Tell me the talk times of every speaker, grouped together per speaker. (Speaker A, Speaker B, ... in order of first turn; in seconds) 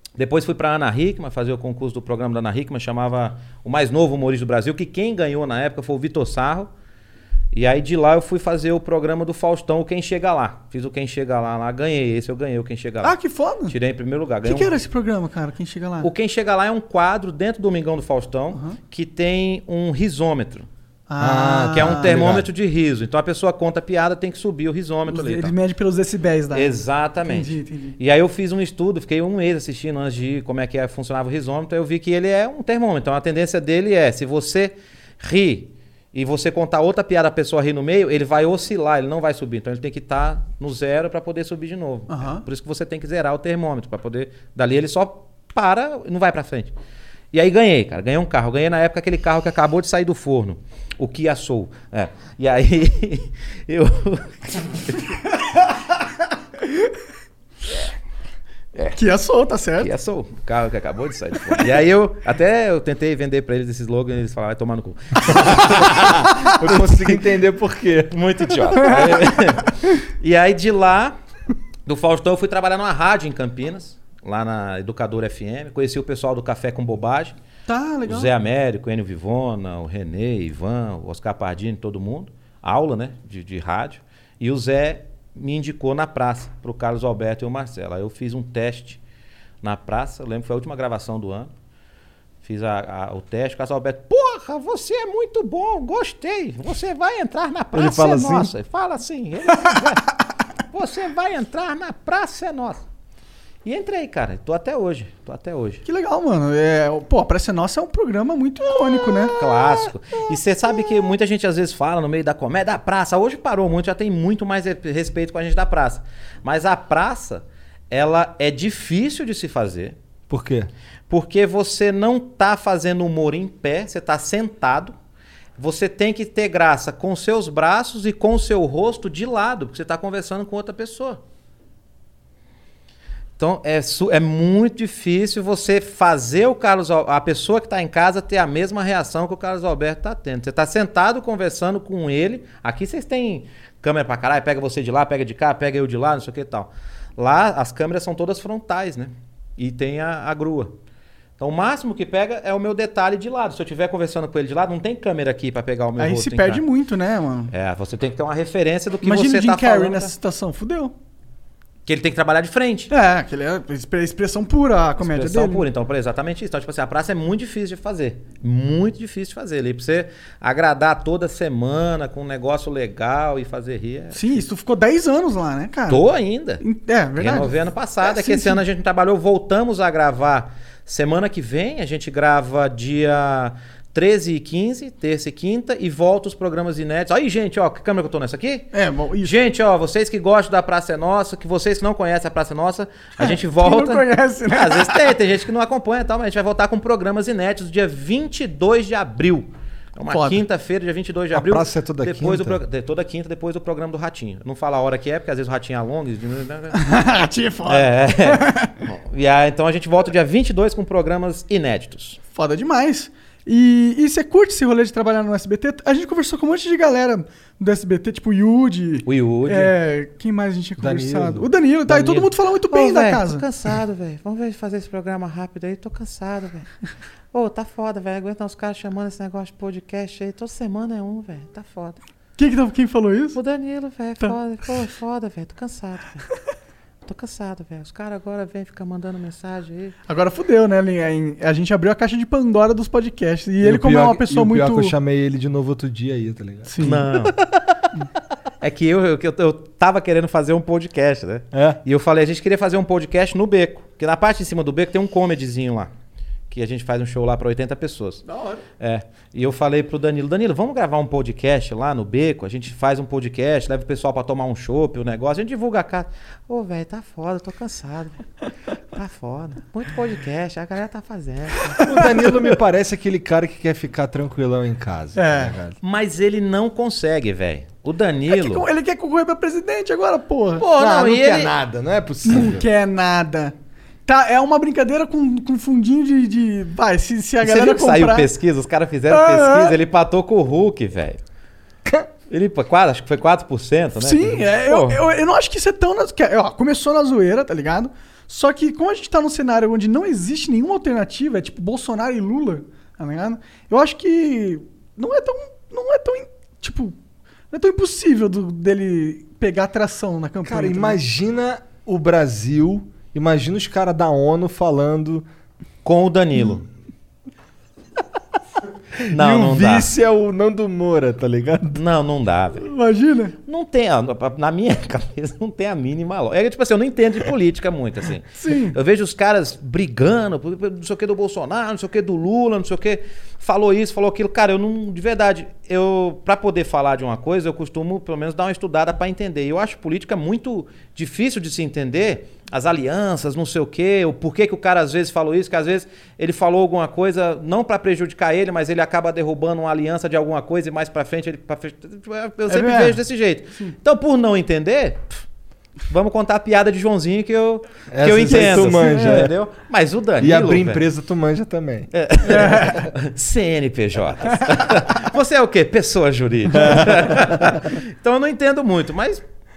Speaker A: 0.2-6.7, 7.5-13.2, 13.7-14.7, 16.0-20.7, 21.7-25.5, 26.5-46.7, 47.3-55.1, 59.8-67.2, 68.1-71.2, 71.9-77.3, 78.1-89.0, 89.6-91.5, 92.4-100.0, 100.7-102.8, 103.7-105.8, 109.4-120.0, 121.1-124.9, 125.6-131.2, 133.4-150.7, 151.4-156.6, 157.5-160.1, 161.9-162.9, 165.0-174.4, 175.9-176.6, 177.2-206.8, 207.7-212.2, 219.1-219.7, 221.9-226.7, 227.3-232.0, 233.3-236.3, 237.1-239.9, 246.8-247.4, 248.6-255.9, 256.5-258.2, 258.8-268.2, 268.9-271.9, 275.8-278.6, 280.6-281.6, 287.4-291.2, 292.3-295.0, 315.9-316.6, 319.1-319.9, 321.7-322.7, 323.5-355.2, 355.9-360.9, 361.9-369.2
Speaker B: 13.0-13.8, 14.4-16.1, 21.1-22.2, 25.1-26.7, 27.2-27.9, 42.1-42.5, 59.0-59.9, 77.7-78.3, 105.9-109.4, 156.0-157.5, 159.0-160.9, 162.9-165.7, 174.1-176.0, 176.6-178.6, 188.7-189.3, 193.2-195.1, 200.1-200.4, 206.8-208.7, 212.3-223.4, 232.4-233.4, 240.1-244.9, 246.7-247.1, 258.3-258.6, 271.7-272.4, 275.2-275.5, 278.3-280.9, 282.2-283.6, 284.1-288.3, 289.1-289.8, 294.0-307.0, 307.5-311.0, 322.7-323.4, 328.4-328.8, 352.5-353.0, 358.1-359.3, 362.3-362.9
Speaker C: 21.2-22.5, 65.6-68.8, 97.7-98.5, 120.3-120.7, 201.3-202.6, 220.8-221.5, 243.6-247.3, 251.5-251.8, 271.8-275.8, 280.7-282.7, 310.4-315.3, 319.1-321.8, 357.9-359.3, 360.2-361.9, 366.6-367.2